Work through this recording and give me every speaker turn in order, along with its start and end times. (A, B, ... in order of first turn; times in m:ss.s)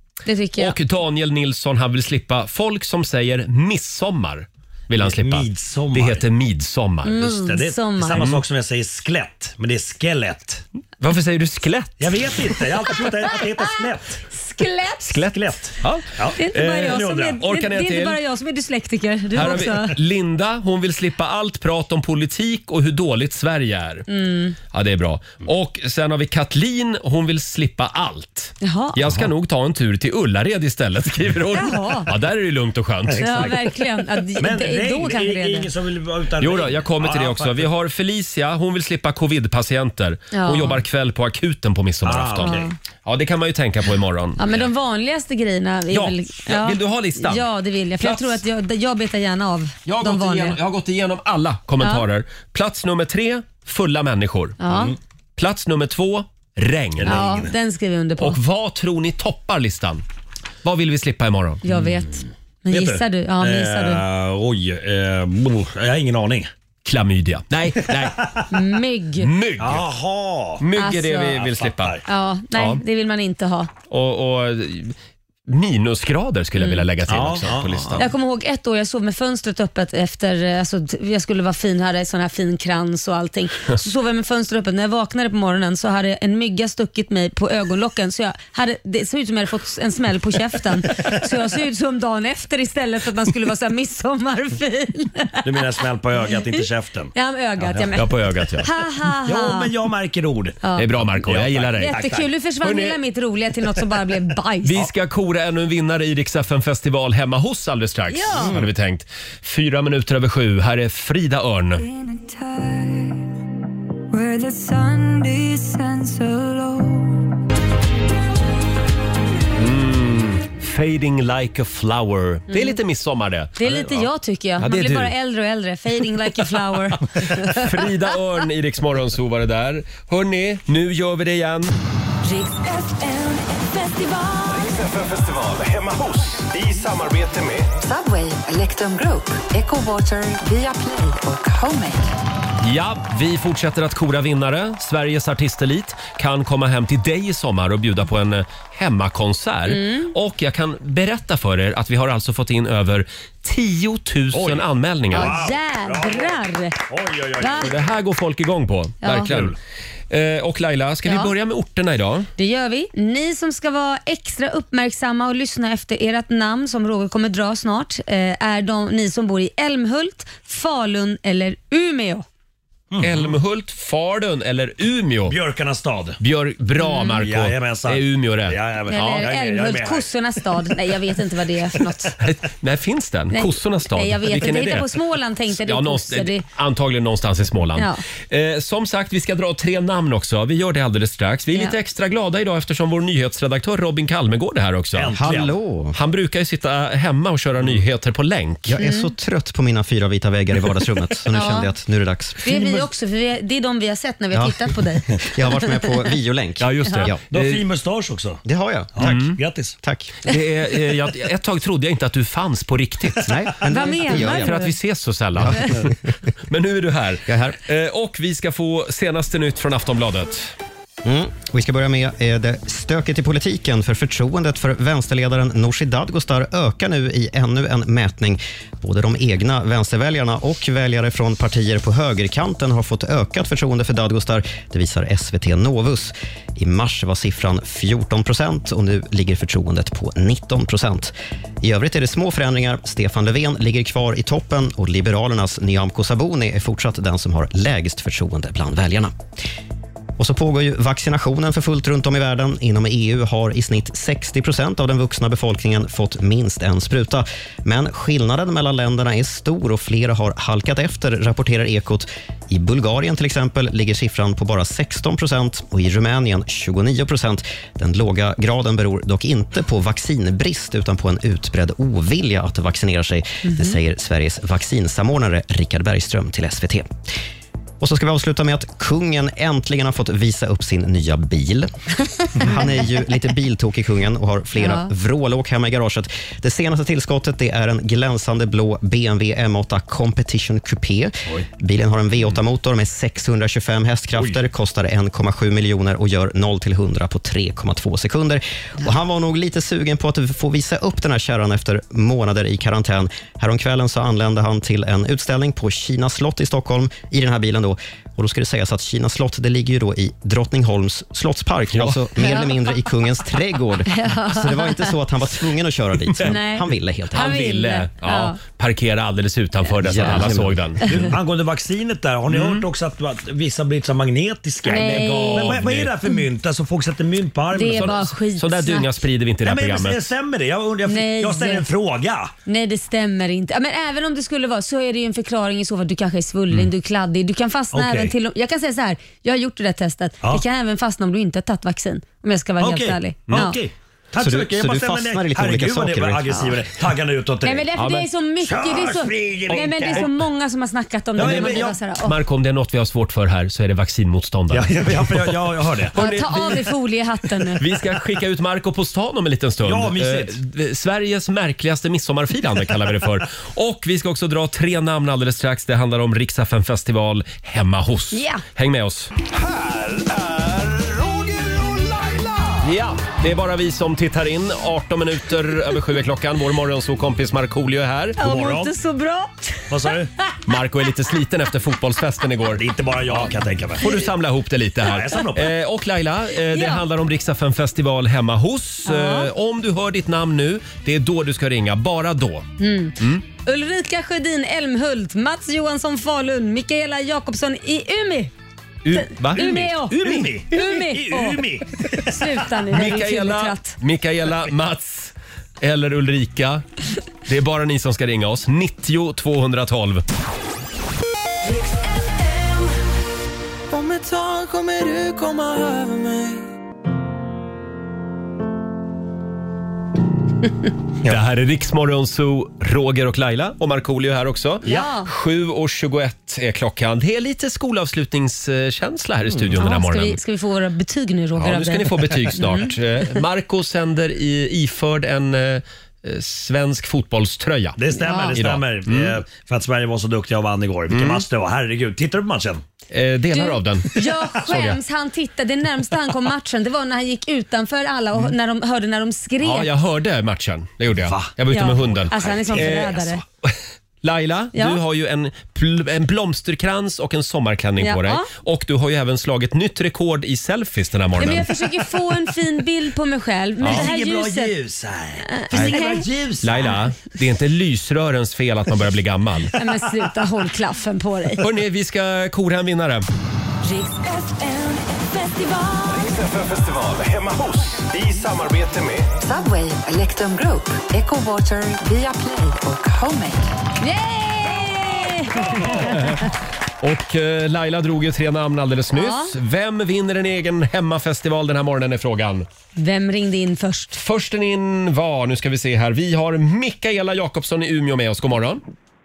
0:00.2-0:00.8 A
0:00.6-0:07.3 B
0:05.0-0:06.2 C
0:07.0-0:08.3 A
0:07.3-0:10.6 C
0:08.1-0:08.4 B
0:11.0-0:12.3 B
0:12.0-0:14.2 C
0:14.3-0:15.2 A
0:15.0-0:18.2 B
0:15.2-0:17.4 C
0:16.3-0:20.0 A
0:19.3-0:24.1 B
0:24.1-0:24.5 A
0:24.7-0:33.6 B
0:28.6-0:29.0 A
0:31.5-0:32.1 A
0:33.1-0:33.6 C
0:33.2-0:35.7 A
0:34.4-0:37.7 C
0:36.4-0:44.7 B
0:40.3-0:40.8 A
0:42.0-0:42.7 C
0:42.4-0:42.7 A
0:44.4-0:50.6 A
0:45.9-0:47.4 B
0:48.0-0:48.4 B
0:49.8-0:54.6 B
0:54.6-0:54.9 A
0:54.7-0:55.0 C
0:55.4-0:57.2 B
0:57.0-0:57.5 C
0:57.0-0:58.4 A
0:58.2-1:00.0 B
1:00.6-1:01.6 B
1:01.6-1:04.0 A
1:01.7-1:02.1 C
1:02.7-1:06.5 C
1:06.8-1:08.3 B
1:07.9-1:08.4 C
1:08.5-1:09.3 A
1:09.2-1:09.9 B
1:09.6-1:10.6 C
1:10.6-1:12.0 B
1:10.8-1:11.4 A
1:11.3-1:12.0 C
1:12.0-1:13.7 A
1:12.5-1:12.8 B
1:13.9-1:15.0 B
1:15.5-1:18.1 B
1:16.6-1:16.8 A
1:17.1-1:18.0 C
1:18.0-1:35.6 A
1:35.4-1:38.0 C
1:37.1-1:39.7 A
1:37.9-1:38.7 B
1:39.2-1:40.6 C
1:40.6-1:40.9 A
1:40.8-1:42.0 B
1:41.1-1:42.3 C
1:41.8-1:44.8 A
1:42.6-1:43.0 B
1:44.6-1:51.8 B
1:48.1-1:48.5 A
1:54.1-1:56.0 A
1:59.6-2:05.1 B
2:02.5-2:02.8 A
2:03.6-2:07.9 A
2:07.3-2:11.7 B
2:12.2-2:14.5 A
2:14.5-2:17.7 D
2:17.8-2:22.1 E
2:22.6-2:35.4 B
2:29.7-2:30.1 A
2:34.3-2:36.4 C
2:35.1-2:36.8 A
2:36.9-2:37.8 C
2:37.4-2:37.7 A
2:37.6-2:39.5 B
2:39.0-2:39.3 A
2:39.2-2:39.5 C
2:40.1-2:42.3 B
2:41.0-2:41.3 A
2:42.4-2:52.2 A
2:52.9-2:53.3 C
2:53.0-2:55.4 B
2:55.3-2:56.2 C
2:56.2-2:58.6 B
2:56.8-2:57.2 A
2:57.2-3:00.1 C
2:58.9-3:02.1 A
3:02.2-3:05.0 B
3:03.3-3:06.4 A
3:05.5-3:15.4 B
3:07.8-3:08.0 A
3:14.9-3:15.5 C
3:15.2-3:16.0 F
3:15.9-3:18.8 B
3:18.7-3:22.8 F
3:18.8-3:19.1 A
3:21.3-3:21.7 A
3:22.4-3:25.9 A
3:24.3-3:27.2 F
3:26.6-3:27.6 B
3:27.3-3:28.4 C
3:28.4-3:29.3 F
3:29.0-3:29.8 C
3:29.0-3:29.4 B
3:29.8-3:30.2 F
3:30.2-3:33.3 B
3:33.2-3:34.6 F
3:33.6-3:34.7 A
3:34.1-3:36.0 B
3:35.4-3:35.9 F
3:36.5-3:40.5 B
3:37.2-3:37.6 F
3:41.0-4:09.1 F
4:10.2-4:36.9 F
4:33.4-4:33.8 A
4:37.8-4:41.7 F
4:42.4-5:17.3 F
4:44.6-4:44.9 A
5:11.7-5:12.0 B
5:12.2-5:12.7 A
5:13.9-5:14.9 A
5:16.2-5:18.4 A
5:17.1-5:21.0 B
5:19.8-5:20.7 F
5:20.8-5:28.0 C
5:22.3-5:22.6 B
5:24.6-5:26.1 A
5:24.8-5:25.9 B
5:27.5-5:28.9 A
5:27.6-5:30.0 B
5:29.4-5:32.3 C
5:30.8-5:31.7 A
5:32.4-5:43.6 A
5:37.7-5:38.1 C
5:42.6-5:47.7 C
5:44.2-5:46.6 F
5:47.4-5:52.2 A
5:47.8-5:48.1 B
5:48.4-5:50.1 C
5:51.2-5:51.8 C
5:51.2-5:55.2 B
5:54.5-5:56.0 C
5:55.8-5:56.8 B
5:55.9-5:57.6 A
5:57.6-6:09.1 B
5:59.6-6:00.4 C
6:08.1-6:08.4 A
6:09.5-6:12.2 D
6:12.6-6:18.2 B
6:18.2-6:20.3 A
6:18.2-6:18.7 C
6:19.7-6:20.1 C
6:20.4-6:33.2 B
6:22.5-6:23.9 C
6:24.9-6:25.5 C
6:26.5-6:26.8 A
6:28.8-6:29.3 A
6:32.6-6:38.3 A
6:38.8-6:40.3 B
6:38.9-6:41.4 A
6:39.4-6:42.2 C
6:42.0-6:43.8 A
6:42.7-6:46.6 B
6:47.2-6:50.0 B
6:53.7-6:56.4 G
7:01.0-7:10.2 B
7:04.6-7:05.1 A
7:04.6-7:04.9 C
7:09.6-7:12.7 A
7:11.4-7:19.2 B
7:17.8-7:22.6 C
7:18.0-7:18.4 A
7:20.9-7:21.2 B
7:22.9-7:24.8 B
7:23.3-7:29.7 A
7:29.4-7:41.5 B
7:31.0-7:31.3 C
7:31.5-7:33.2 A
7:32.1-7:33.2 C
7:34.5-7:34.8 A
7:37.8-7:38.3 A
7:41.2-7:44.5 A
7:43.6-7:43.9 B
7:43.6-7:46.7 C
7:45.2-7:46.1 A
7:45.5-7:45.8 B
7:46.4-7:49.5 B
7:49.5-7:51.5 A
7:51.4-7:53.0 B
7:53.6-7:56.0 A
7:55.9-7:59.1 D
7:59.2-8:03.5 E
8:03.8-8:06.0 A
8:05.7-8:12.5 B
8:08.9-8:09.3 A
8:12.8-8:14.0 A
8:14.0-8:18.6 B